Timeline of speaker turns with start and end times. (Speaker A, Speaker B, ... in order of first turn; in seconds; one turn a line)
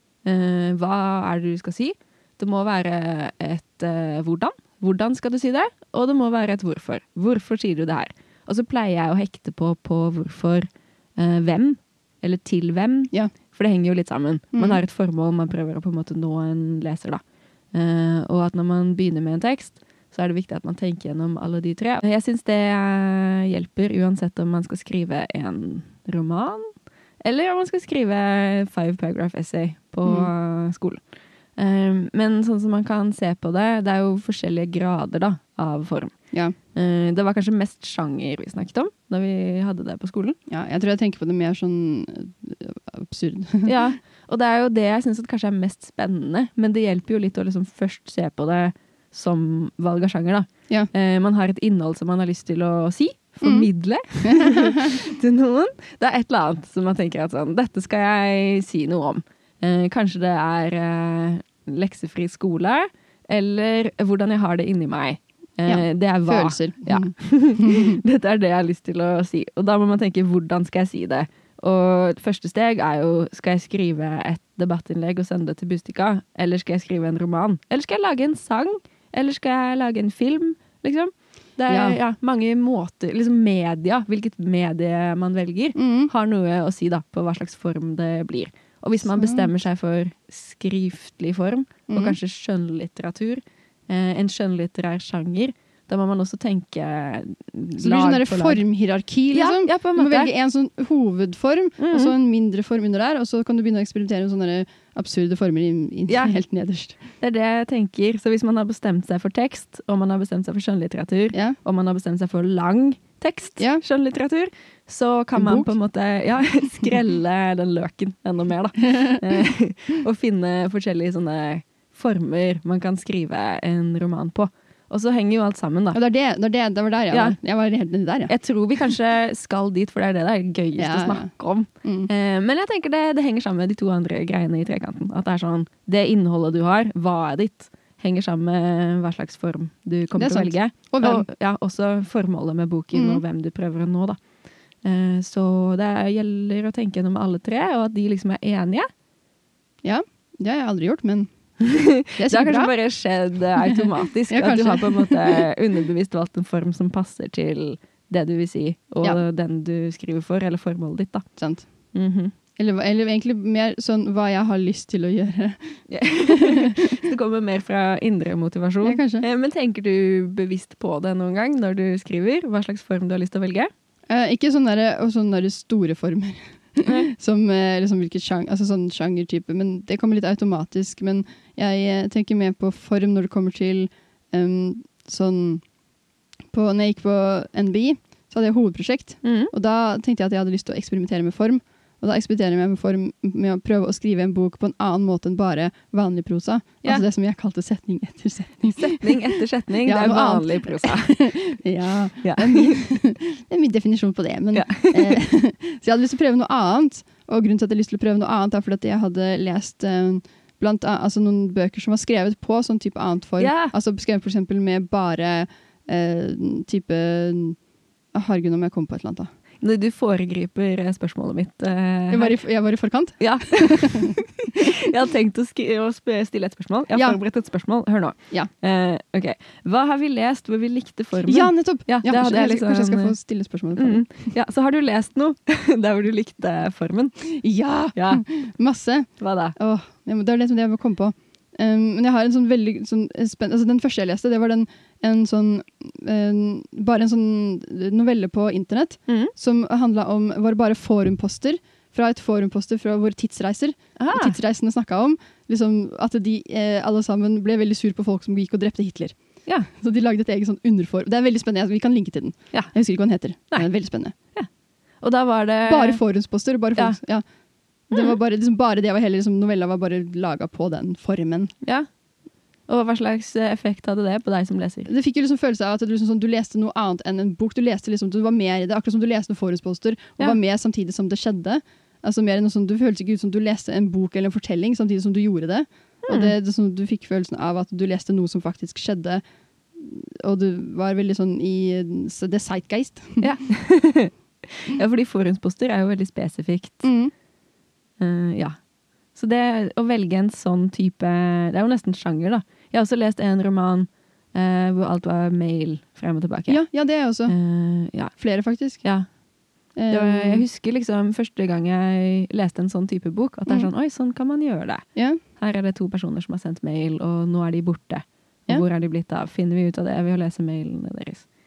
Speaker A: 0.2-17.2
Speaker B: 14.5-14.8
Speaker A: 17.7-26.7
Speaker A: 27.2-31.0
Speaker A: 31.6-36.1
Speaker A: 36.7-40.4
Speaker B: 40.5-43.7
Speaker A: 43.6-98.6
Speaker B: 54.2-55.0
Speaker B: 65.7-68.0
Speaker B: 81.7-82.0
Speaker B: 85.8-86.1
Speaker B: 89.0-89.5
Speaker B: 91.9-92.2
Speaker B: 97.8-107.0
Speaker A: 99.3-100.3
Speaker A: 101.8-102.1
Speaker A: 106.1-106.3
Speaker A: 107.2-126.0
Speaker B: 115.3-115.7
Speaker B: 118.9-119.4
Speaker B: 125.9-128.3
Speaker A: 127.1-127.3
Speaker A: 128.3-144.2
Speaker B: 130.8-131.3
Speaker B: 131.8-132.1
Speaker B: 140.2-141.3
Speaker B: 142.9-143.2
Speaker A: 144.8-148.9
Speaker B: 149.8-151.3
Speaker A: 151.6-161.2
Speaker B: 152.2-152.7
Speaker B: 153.7-155.4
Speaker B: 161.4-161.7
Speaker A: 161.9-162.3
Speaker B: 162.6-166.9
Speaker A: 165.9-173.7
Speaker B: 168.8-169.2
Speaker B: 174.1-185.6
Speaker A: 176.8-177.1
Speaker B: 186.5-217.6
Speaker A: 189.2-189.5
Speaker A: 198.7-201.2
Speaker A: 202.2-202.8
Speaker A: 204.5-205.2
Speaker A: 213.4-213.7
Speaker B: 218.1-219.3
Speaker A: 219.6-222.3
Speaker B: 222.1-224.2
Speaker A: 223.2-233.1
Speaker B: 226.9-227.2
Speaker B: 231.2-234.0
Speaker A: 233.8-237.2
Speaker B: 237.2-259.1
Speaker A: 237.9-238.2
Speaker A: 239.2-239.6
Speaker A: 254.0-254.4
Speaker B: 259.7-264.1
Speaker A: 265.0-266.0
Speaker B: 265.7-267.2
Speaker B: 267.9-271.5
Speaker A: 272.7-274.9
Speaker B: 274.9-289.2
Speaker A: 286.1-286.3
Speaker B: 289.8-293.3
Speaker A: 293.2-296.9
Speaker B: 296.8-297.1
Speaker A: 298.0-298.6
Speaker A: 299.1-306.6
Speaker B: 306.5-307.3
Speaker A: 307.3-308.1
Speaker B: 308.2-308.8
Speaker B: 309.8-310.4
Speaker A: 309.9-314.8
Speaker B: 314.9-315.2
Speaker A: 315.4-321.2